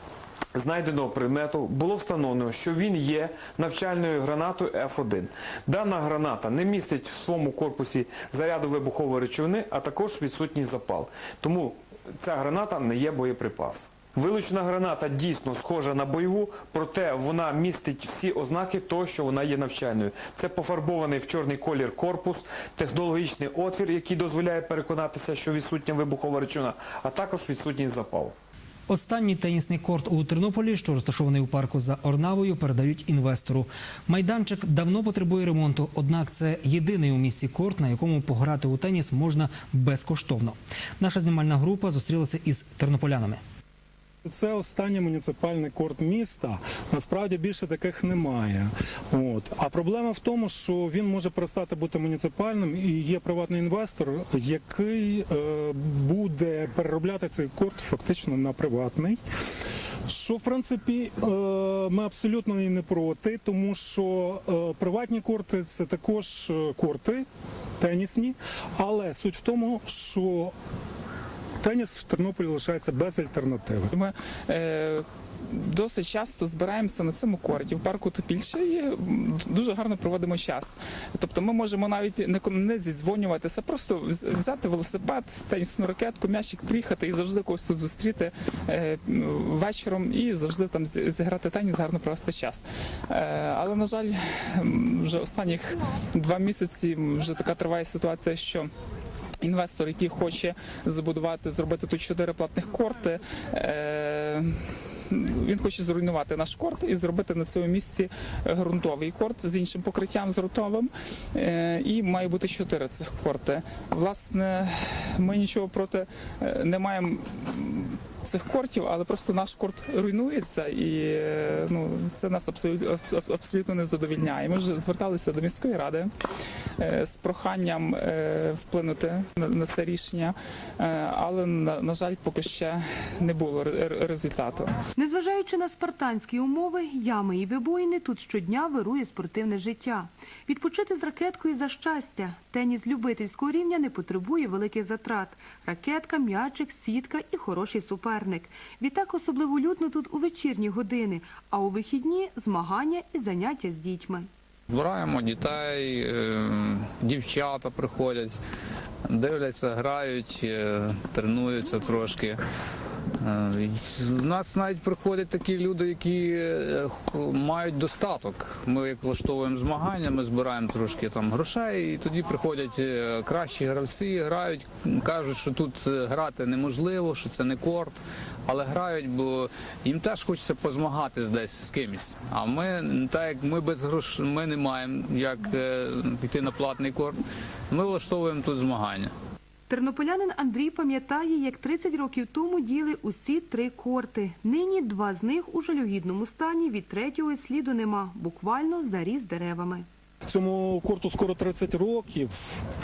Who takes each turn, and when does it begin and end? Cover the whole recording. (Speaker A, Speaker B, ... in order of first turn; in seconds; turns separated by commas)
Speaker A: 0.6-28.4, Speaker B: 28.9-43.4, Speaker C: 44.2-59.2, Speaker C: 60.1-67.3, Speaker C: 67.8-70.5, Speaker C: 71.6-73.9, Speaker D: 73.9-98.7, Speaker D: 99.4-104.6, Speaker D: 105.1-126.1, Speaker D: 126.8-134.8, Speaker E: 135.0-154.3, Speaker F: 154.7-158.3, Speaker F: 159.1-162.4, Speaker F: 163.2-187.2, Speaker F: 187.7-189.1, Speaker E: 189.7-199.9, Speaker C: 200.3-202.6